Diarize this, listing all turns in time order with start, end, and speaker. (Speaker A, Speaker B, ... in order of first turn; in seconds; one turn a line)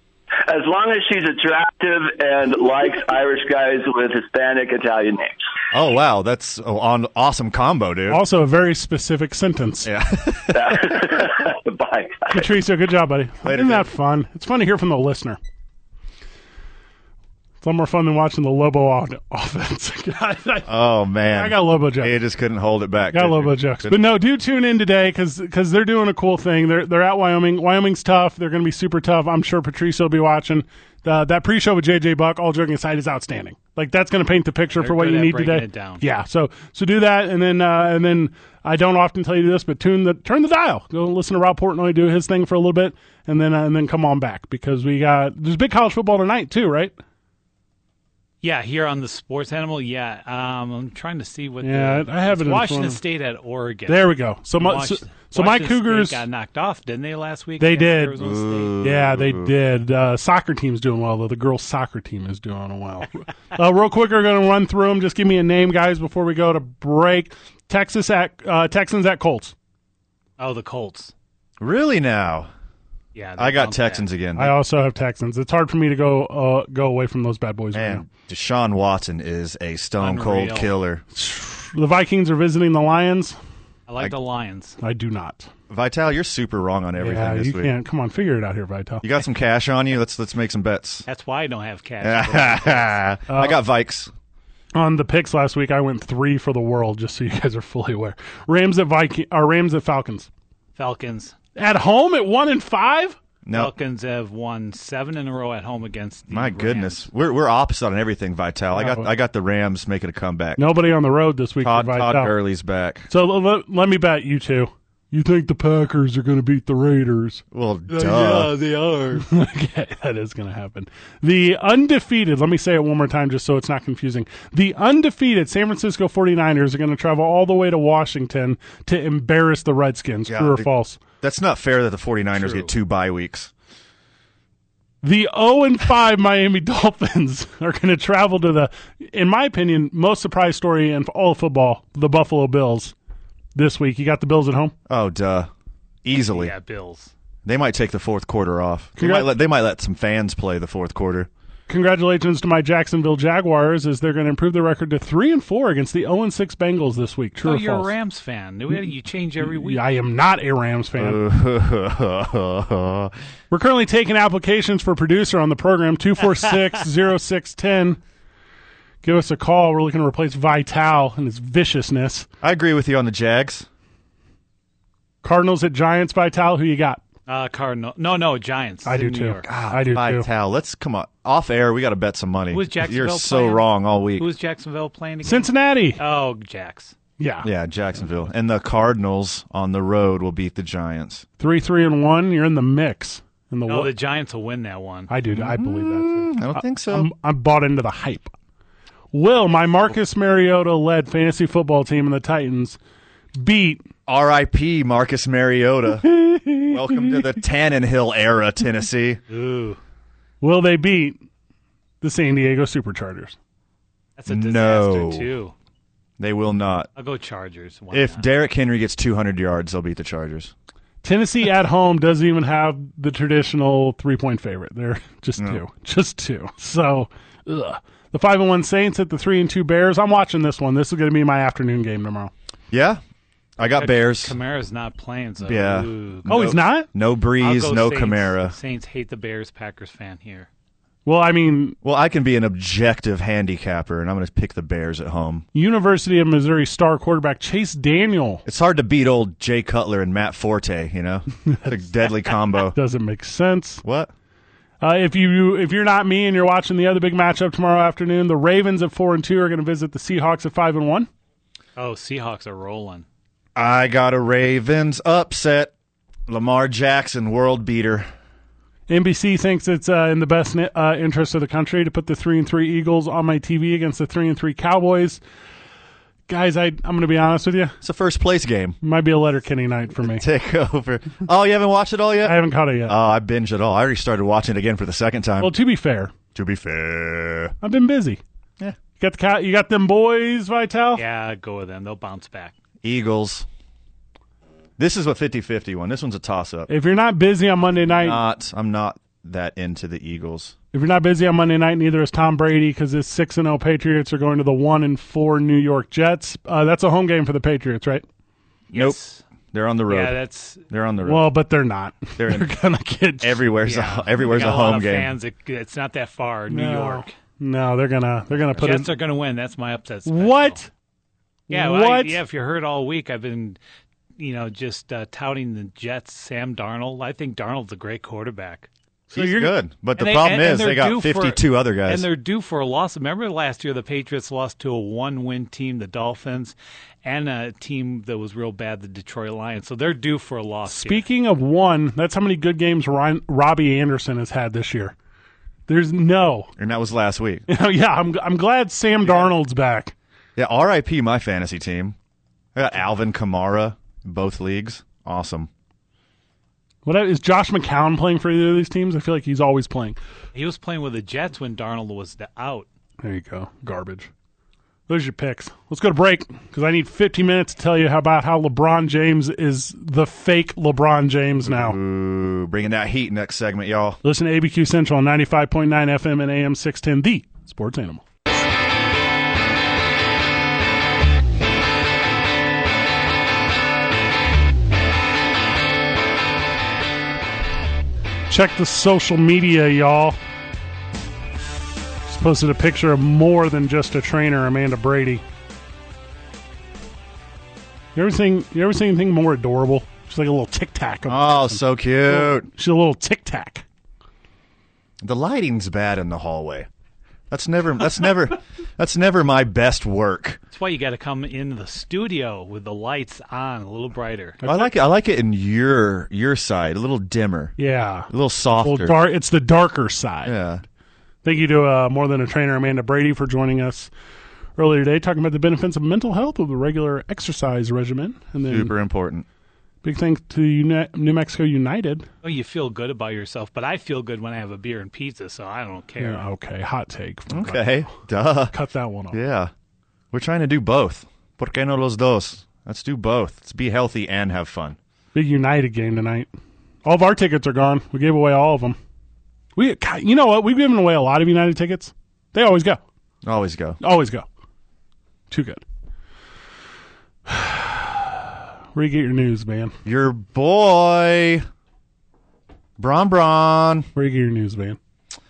Speaker A: 0.5-5.4
Speaker B: 5.7-8.2
Speaker C: 8.1-9.9
Speaker B: 9.8-11.0
Speaker A: 10.5-12.6
Speaker C: 12.3-15.4
Speaker B: 13.4-13.9
Speaker C: 17.6-22.2
Speaker B: 20.7-24.0
Speaker C: 23.1-47.0
Speaker D: 34.8-36.0
Speaker D: 48.4-58.8
Speaker C: 51.6-53.0
Speaker C: 53.9-56.2
Speaker C: 57.6-58.1
Speaker B: 58.2-59.5
Speaker C: 58.8-69.5
Speaker D: 70.4-71.1
Speaker B: 71.6-72.5
Speaker D: 73.2-74.1
Speaker B: 73.4-74.5
Speaker C: 74.4-78.1
Speaker B: 77.7-81.0
Speaker D: 80.0-80.7
Speaker C: 81.1-83.4
Speaker D: 83.9-84.8
Speaker C: 84.8-85.5
Speaker B: 85.7-87.7
Speaker C: 87.0-89.0
Speaker B: 89.0-91.1
Speaker D: 91.1-93.0
Speaker B: 92.0-94.1
Speaker C: 93.3-93.6
Speaker C: 94.8-100.3
Speaker D: 100.8-101.4
Speaker C: 101.6-103.2
Speaker B: 103.5-103.7
Speaker D: 103.5-107.1
Speaker B: 106.3-110.6
Speaker C: 108.8-109.1
Speaker C: 110.6-112.3
Speaker B: 111.6-113.1
Speaker C: 113.1-131.0
Speaker B: 117.5-118.6
Speaker B: 130.3-130.7
Speaker B: 131.2-133.5
Speaker D: 132.4-132.7
Speaker C: 135.0-142.9
Speaker C: 143.6-144.7
Speaker B: 144.9-145.5
Speaker B: 146.0-146.5
Speaker D: 146.3-147.1
Speaker B: 147.4-151.3
Speaker C: 149.0-149.3
Speaker C: 151.7-157.9
Speaker D: 157.4-159.8
Speaker C: 159.4-161.2
Speaker B: 161.0-163.1
Speaker C: 163.5-168.0
Speaker C: 169.0-172.3
Speaker B: 172.4-173.7
Speaker C: 175.2-177.0
Speaker D: 177.3-179.5
Speaker C: 178.8-180.3
Speaker B: 179.4-184.3
Speaker D: 182.5-187.0
Speaker C: 185.2-186.0
Speaker C: 187.2-187.5
Speaker B: 187.4-191.2
Speaker C: 191.4-193.9
Speaker D: 193.7-195.1
Speaker C: 195.1-198.3
Speaker B: 195.3-197.1
Speaker C: 199.1-202.8
Speaker C: 203.4-203.8
Speaker B: 204.1-209.2
Speaker C: 206.0-207.3
Speaker D: 209.3-209.8
Speaker C: 210.4-211.2
Speaker C: 212.0-213.4
Speaker D: 214.2-215.5
Speaker B: 214.3-215.3
Speaker B: 216.2-216.9
Speaker D: 217.0-218.3
Speaker B: 217.9-220.5
Speaker C: 221.0-232.3
Speaker B: 232.7-233.0
Speaker B: 233.6-234.3
Speaker D: 233.8-236.3
Speaker B: 235.4-238.6
Speaker C: 236.3-236.9
Speaker D: 237.4-240.5
Speaker C: 241.1-241.8
Speaker B: 241.8-245.4
Speaker C: 245.5-248.4
Speaker B: 248.4-252.8
Speaker C: 252.7-253.8
Speaker B: 253.8-254.1
Speaker C: 254.8-261.1
Speaker D: 261.8-263.1
Speaker B: 263.6-265.7
Speaker B: 266.3-268.1
Speaker C: 268.9-275.2
Speaker C: 276.3-277.8
Speaker B: 277.8-278.8
Speaker C: 278.8-280.2
Speaker B: 280.0-285.5
Speaker C: 282.2-283.0
Speaker C: 285.4-286.1
Speaker B: 286.4-287.5
Speaker C: 287.6-288.2
Speaker C: 289.0-291.0
Speaker D: 290.9-292.6
Speaker B: 292.8-293.5
Speaker B: 294.8-296.7
Speaker C: 296.7-298.2
Speaker B: 298.0-300.6
Speaker C: 300.7-308.1
Speaker D: 308.7-309.2
Speaker B: 308.7-309.0
Speaker B: 309.5-310.2
Speaker D: 309.9-310.6
Speaker B: 310.7-311.3
Speaker C: 311.1-313.4
Speaker B: 312.2-312.6
Speaker B: 313.2-315.2
Speaker D: 313.6-317.1
Speaker C: 316.5-318.9
Speaker D: 318.6-320.6
Speaker C: 320.1-320.7
Speaker C: 321.5-322.2
Speaker D: 321.5-323.6
Speaker D: 324.2-328.7
Speaker C: 329.1-329.6
Speaker B: 329.1-332.1
Speaker D: 330.0-341.1
Speaker C: 340.7-344.9
Speaker C: 345.7-346.5
Speaker B: 346.6-347.4
Speaker C: 347.5-349.9
Speaker B: 350.4-352.0
Speaker B: 352.6-355.5
Speaker C: 356.9-360.0
Speaker D: 360.3-362.7
Speaker C: 363.0-364.1
Speaker C: 364.9-371.8
Speaker B: 371.4-374.0
Speaker C: 374.0-378.0
Speaker C: 388.3-390.2
Speaker C: 392.1-395.2
Speaker C: 397.9-403.6
Speaker B: 401.1-402.5
Speaker B: 405.0-406.7
Speaker B: 407.3-410.4
Speaker D: 410.5-414.4
Speaker C: 414.4-414.7
Speaker B: 414.4-417.5
Speaker C: 417.6-420.4
Speaker B: 418.1-419.0
Speaker B: 420.2-420.6
Speaker C: 421.2-423.9
Speaker C: 424.6-428.7
Speaker B: 428.5-429.3
Speaker C: 429.8-432.1
Speaker D: 432.2-436.3
Speaker C: 436.0-437.9
Speaker B: 437.3-438.5
Speaker C: 438.5-439.2
Speaker B: 439.1-439.5
Speaker B: 440.1-444.8
Speaker C: 445.1-446.3
Speaker C: 446.8-448.8
Speaker C: 449.6-452.8
Speaker B: 453.2-453.8
Speaker C: 453.8-454.3
Speaker C: 455.3-455.6
Speaker C: 457.3-458.2
Speaker C: 458.7-459.7
Speaker B: 459.9-461.5
Speaker B: 462.8-463.9
Speaker C: 463.9-464.8